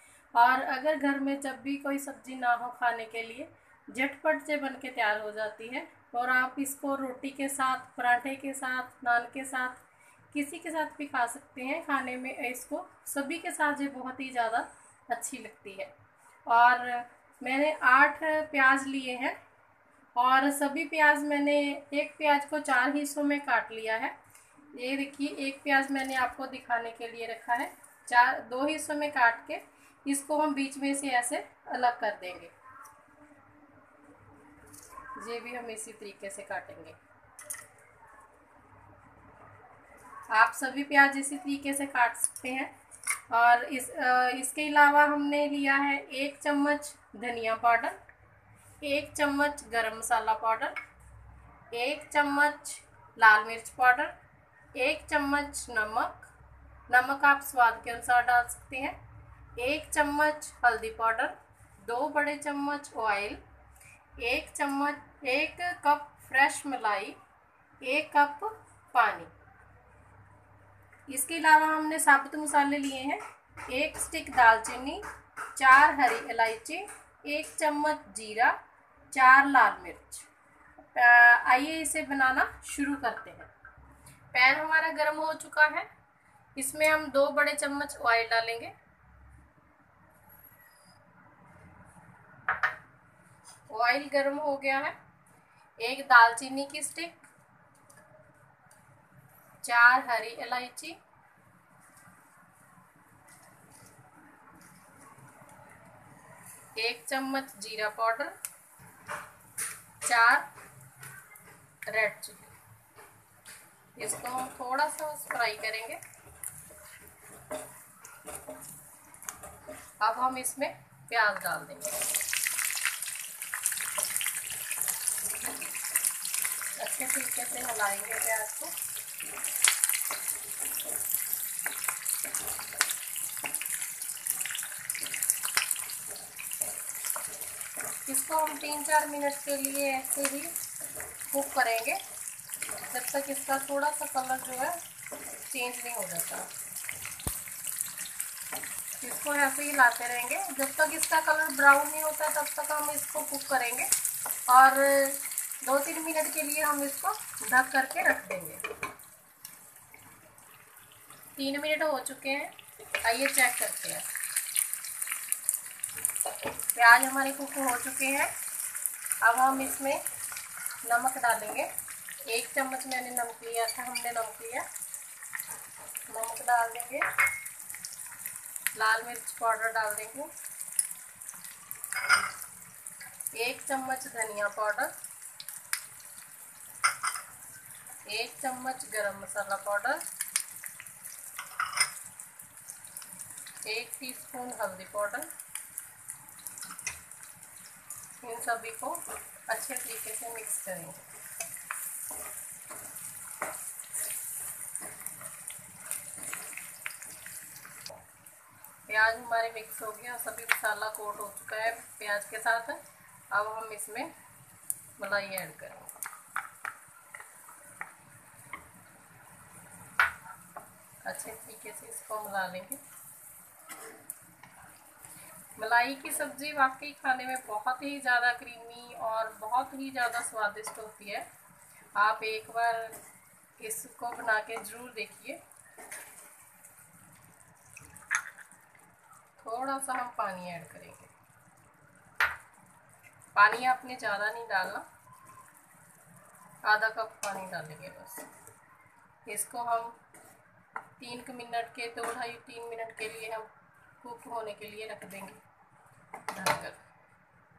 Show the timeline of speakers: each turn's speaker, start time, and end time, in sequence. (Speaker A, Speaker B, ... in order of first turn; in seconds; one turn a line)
Speaker A: 0.3-9.8
Speaker A: 10.3-15.9
Speaker A: 16.5-19.4
Speaker A: 20.2-24.1
Speaker A: 24.7-32.5
Speaker A: 35.2-37.0
Speaker A: 40.3-42.7
Speaker A: 43.3-48.0
Speaker A: 48.8-50.8
Speaker A: 51.7-54.1
Speaker A: 54.8-56.3
Speaker A: 56.9-59.0
Speaker A: 59.6-63.4
Speaker A: 64.2-67.2
Speaker A: 67.8-69.3
Speaker A: 71.1-75.0
Speaker A: 75.6-78.6
Speaker A: 79.1-80.3
Speaker A: 80.8-83.5
Speaker A: 84.3-85.9
Speaker A: 86.6-88.7
Speaker A: 93.7-95.0
Speaker A: 95.8-97.3
Speaker A: 99.6-101.0
Speaker A: 106.8-108.3
Speaker A: 110.0-110.5
Speaker A: 111.9-112.5
Speaker A: 114.0-116.0
Speaker A: 120.0-122.0
Speaker A: 126.8-128.8
Speaker A: 138.1-140.5
Speaker A: 141.3-142.0
Speaker A: 142.8-144.8
Speaker A: 145.4-146.5
Speaker A: 149.0-153.9
Speaker A: 154.5-158.6
Speaker A: 161.4-164.1
Speaker A: 166.8-168.3
Speaker A: 169.2-170.0
Speaker A: 170.8-171.7
Speaker A: 172.3-174.7
Speaker A: 176.1-177.0
Speaker A: 178.8-180.3
Speaker A: 183.3-184.9
Speaker A: 188.1-190.0
Speaker A: 193.7-195.3
Speaker A: 198.2-201.1
Speaker A: 208.9-214.1
Speaker A: 215.0-216.0
Speaker A: 221.1-222.8
Speaker A: 225.6-231.3
Speaker A: 232.0-232.9
Speaker A: 233.6-235.4
Speaker A: 239.4-241.1
Speaker A: 243.3-244.8
Speaker A: 246.7-248.3
Speaker A: 249.3-250.0
Speaker A: 251.0-253.5
Speaker A: 254.0-255.4
Speaker A: 256.3-256.8